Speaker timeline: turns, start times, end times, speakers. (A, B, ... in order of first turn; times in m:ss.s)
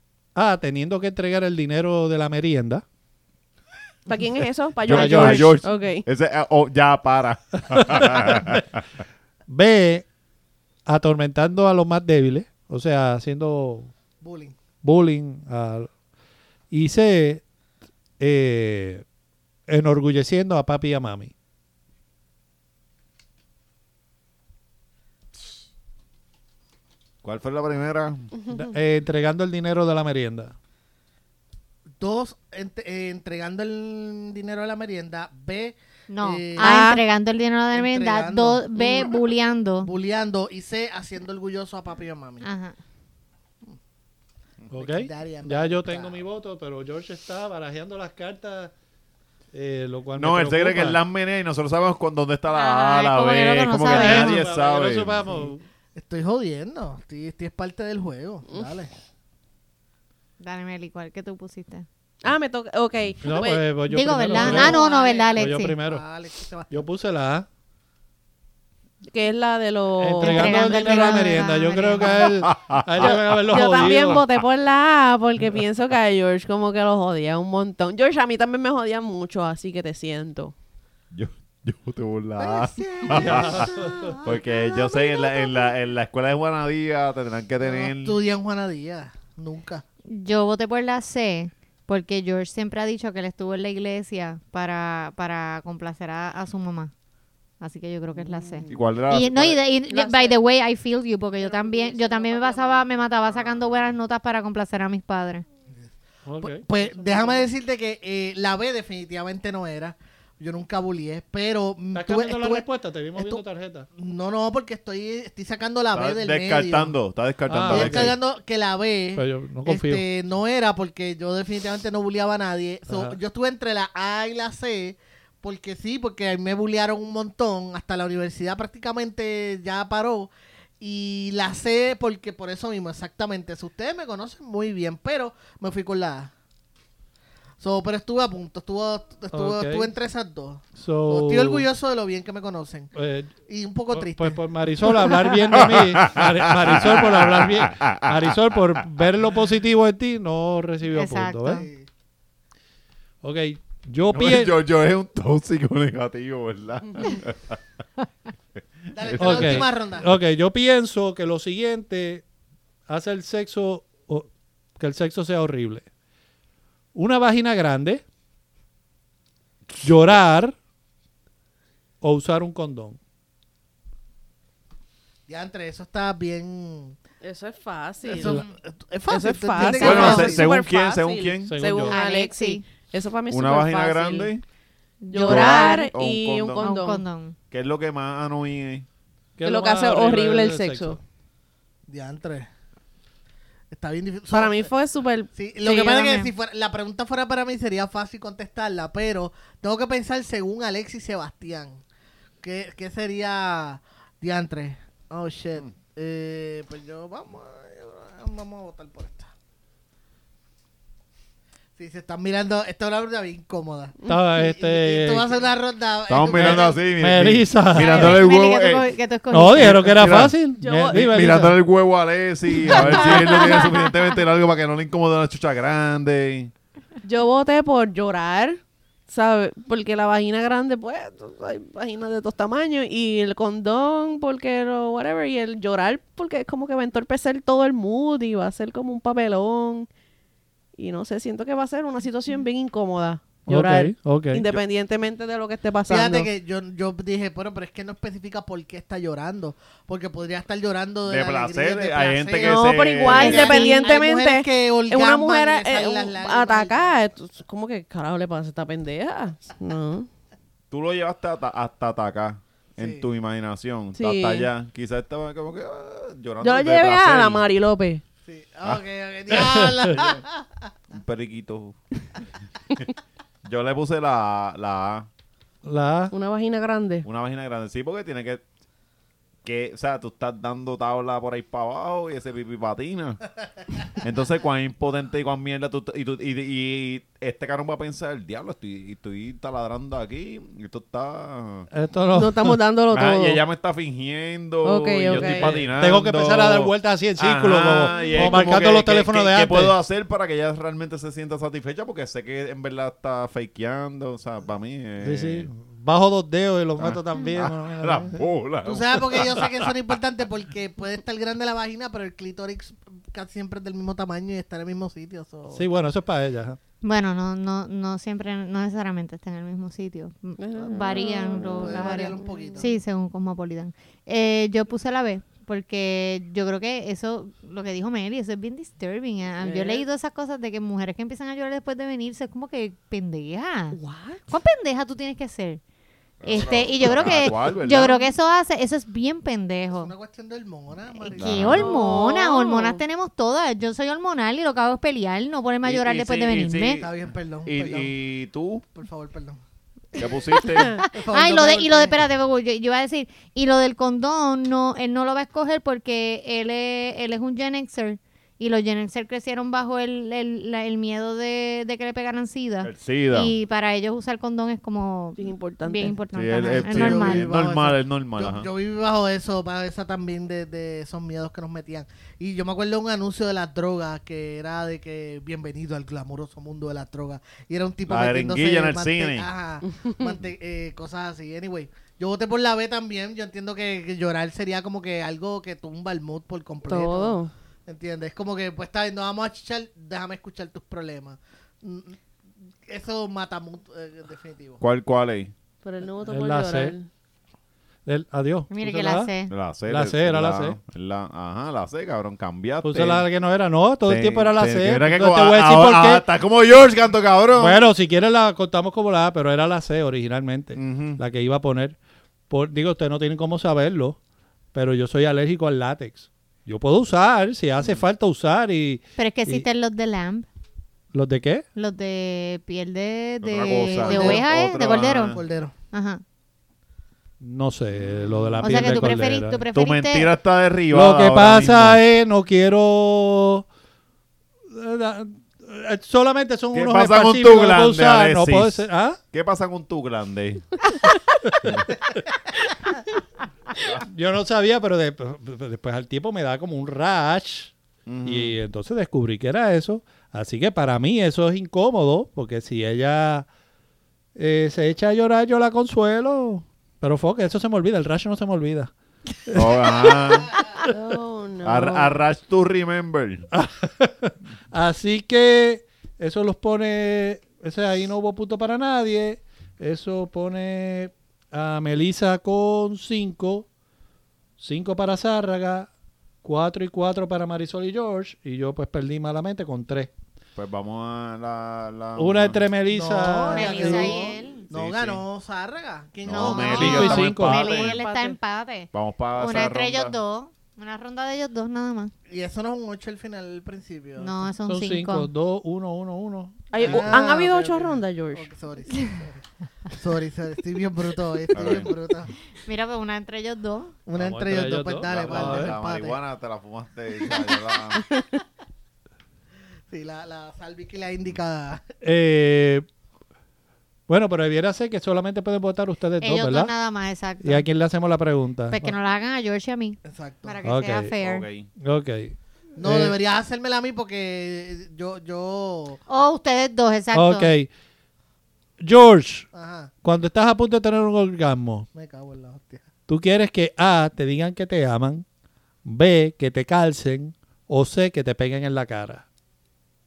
0:00.3-0:02.8 A
0:04.0-0:06.0 B
0:04.8-0:08.8 C
0:04.9-0:05.6 A
0:07.8-0:08.5 A
0:09.5-0:10.0 A
0:10.8-0:13.9 A
0:14.2-0:14.5 D
0:14.8-0:15.9 A
0:16.7-0:17.4 A
0:18.2-0:19.0 A
0:19.7-0:21.3 A
0:27.2-0:28.3 C
0:28.5-0:30.5 A
0:32.0-0:36.8 D
0:36.1-0:39.9 E
0:36.6-0:37.0 B
0:37.7-0:39.1 D
0:39.8-0:42.5 D
0:42.4-0:42.8 E
0:44.7-0:48.7 A
0:44.7-0:46.2 D
0:49.5-0:51.0 A
0:50.2-0:55.5 C
0:52.5-0:54.4 E
0:53.8-0:55.6 A
0:56.0-0:58.9 D
0:58.5-0:58.7 B
1:00.4-1:01.8 E
1:02.2-1:03.6 B
1:03.2-1:04.8 A
1:03.9-1:05.8 E
1:04.3-1:06.8 D
1:05.4-1:06.0 A
1:06.7-1:07.4 A
1:09.0-1:11.3 B
1:10.0-1:14.2 A
1:10.2-1:12.4 E
1:12.4-1:14.3 C
1:13.0-1:20.5 B
1:21.1-1:28.2 C
1:22.4-1:24.4 D
1:23.1-1:24.2 A
1:24.9-1:25.4 E
1:27.6-1:29.8 D
1:30.1-1:36.9 E
1:37.6-1:45.4 E
1:38.2-1:38.7 B
1:38.7-1:39.6 C
1:39.9-1:40.4 B
1:41.4-1:42.8 B
1:46.2-1:47.4 A
1:46.4-1:53.4 D
1:51.9-1:53.9 A
1:54.0-1:56.9 D
1:55.9-1:58.2 C
1:57.5-1:58.1 A
1:57.7-2:16.3 D
1:59.2-2:00.0 A
2:02.9-2:03.2 A
2:17.6-2:22.9 D
2:19.3-2:19.9 A
2:20.8-2:21.6 A
2:22.9-2:23.3 A
2:23.5-2:24.4 D
2:23.9-2:31.6 A
2:24.9-2:25.2 D
2:25.5-2:28.3 C
2:30.9-2:31.6 E
2:31.5-2:31.9 D
2:33.2-2:34.5 A
2:34.1-2:37.6 C
2:38.9-2:39.7 C
2:38.9-2:40.1 D
2:39.2-2:42.2 A
2:42.9-2:45.8 A
2:46.9-2:48.0 A
2:49.8-2:50.6 A
2:52.0-2:53.0 A
2:55.3-2:57.0 D
2:57.2-2:58.4 B
2:58.0-3:00.5 D
2:58.2-2:58.4 A
2:59.1-3:04.3 B
2:59.8-3:01.7 C
2:59.8-3:00.3 E
3:01.5-3:02.0 A
3:01.9-3:02.6 E
3:03.3-3:04.4 C
3:05.0-3:05.9 E
3:05.1-3:07.0 B
3:05.2-3:06.7 C
3:06.6-3:07.4 E
3:07.5-3:08.8 C
3:09.4-3:11.0 A
3:09.4-3:11.0 B
3:11.9-3:12.5 D
3:13.7-3:14.7 D
3:14.3-3:15.3 B
3:15.3-3:21.8 D
3:15.6-3:16.3 E
3:22.4-3:29.3 D
3:31.8-3:36.8 D
3:34.1-3:35.3 A
3:36.1-3:38.9 C
3:36.3-3:38.2 A
3:37.8-3:40.0 E
3:39.3-3:41.6 A
3:39.5-3:40.4 C
3:40.6-3:41.2 B
3:40.9-3:46.5 C
3:42.7-3:43.7 B
3:43.3-3:43.6 E
3:47.0-3:59.9 B
4:00.8-4:06.3 B
4:03.5-4:04.4 A
4:05.9-4:17.0 D
4:11.0-4:13.6 C
4:12.4-4:20.1 B
4:13.1-4:13.9 E
4:20.7-4:27.5 C
4:22.8-4:23.0 D
4:23.9-4:24.5 B
4:26.4-4:28.0 B
4:28.2-4:30.4 D
4:29.3-4:29.9 A
4:29.9-4:30.2 C
4:30.9-4:31.8 C
4:33.4-4:35.1 C
4:35.6-4:36.1 A
4:36.1-4:37.0 B
4:37.0-4:38.4 C
4:39.4-4:43.2 C
4:43.9-4:51.7 C
4:51.7-4:52.6 A
4:52.1-4:53.4 B
4:52.9-5:05.5 C
4:54.6-4:55.5 B
4:55.1-4:59.7 A
4:58.0-4:58.4 B
5:05.0-5:08.2 A
5:06.8-5:09.7 C
5:08.6-5:15.7 D
5:15.5-5:16.6 A
5:16.8-5:33.8 E
5:20.4-5:22.7 B
5:20.9-5:22.7 D
5:29.4-5:29.8 B
5:33.7-5:34.2 B
5:34.3-5:35.6 E
5:36.2-5:38.0 C
5:36.2-5:39.9 E
5:39.7-5:41.7 D
5:41.0-5:46.8 E
5:41.1-5:41.7 C
5:41.5-5:42.8 B
5:45.6-5:48.6 C
5:46.8-5:47.9 D
5:48.7-5:49.4 D
5:50.0-5:50.8 C
5:50.6-6:07.3 E
5:50.8-5:52.0 D
6:02.6-6:03.3 C
6:05.2-6:06.0 B
6:06.1-6:08.5 C
6:06.6-6:32.0 D
6:17.9-6:19.3 C
6:19.6-6:20.1 B
6:26.6-6:27.3 B
6:32.7-6:34.6 D
6:34.6-6:35.3 C
6:35.6-6:36.9 B
6:36.1-6:36.7 A
6:37.8-6:39.1 A
6:38.5-6:39.3 E
6:39.3-6:43.0 C
6:39.7-6:40.6 A
6:42.6-6:46.0 A
6:43.8-6:47.6 C
6:47.3-6:51.8 A
6:50.5-6:51.0 C
6:52.3-6:54.0 A
6:54.5-6:59.4 A
6:57.6-6:57.9 C
6:59.0-7:00.3 E
7:00.9-7:01.4 A
7:01.5-7:05.2 E
7:03.2-7:05.2 C
7:03.5-7:04.2 D
7:05.1-7:05.5 D
7:05.7-7:06.0 E
7:07.2-7:09.4 A
7:07.7-7:08.9 C
7:08.4-7:10.1 E
7:09.5-7:11.8 C
7:10.7-7:13.4 A
7:14.5-7:19.0 A
7:16.5-7:20.5 C
7:21.2-7:21.6 A
7:23.7-7:27.5 A
7:27.8-7:28.4 C
7:28.0-7:33.3 A
7:34.2-7:38.7 A
7:39.2-7:40.7 A
7:39.3-7:40.3 C
7:40.6-7:42.0 B
7:41.4-7:43.3 C
7:43.3-7:53.5 A
7:54.4-7:55.7 A
7:56.2-7:59.9 A
8:00.4-8:02.4 C
8:02.0-8:04.0 A
8:02.7-8:06.9 D
8:03.3-8:04.5 E
8:04.5-8:05.0 C
8:06.0-8:07.8 C
8:06.1-8:11.9 E
8:06.5-8:07.6 A
8:07.5-8:08.2 B
8:08.7-8:10.0 C
8:12.1-8:14.2 D
8:14.0-8:15.1 E
8:14.4-8:17.0 A
8:16.5-8:18.3 B
8:16.6-8:22.1 D
8:21.3-8:21.7 C
8:22.4-8:23.8 E
8:23.8-8:26.0 D
8:23.9-8:25.5 A
8:24.8-8:27.8 C
8:29.7-8:31.6 D
8:31.8-8:32.6 A
8:33.9-8:36.5 A
8:36.0-8:37.4 E
8:37.2-8:38.7 A
8:38.5-8:41.2 E
8:39.8-8:40.4 D
8:40.4-8:40.9 A
8:41.0-8:41.5 C
8:41.6-8:43.0 A
8:42.6-8:45.8 D
8:45.9-8:47.3 E
8:46.9-8:47.5 A
8:48.6-8:49.3 A
8:49.3-8:49.7 D
8:49.8-8:51.6 A
8:51.7-8:52.7 D
8:52.9-8:55.0 A
8:55.6-8:59.0 A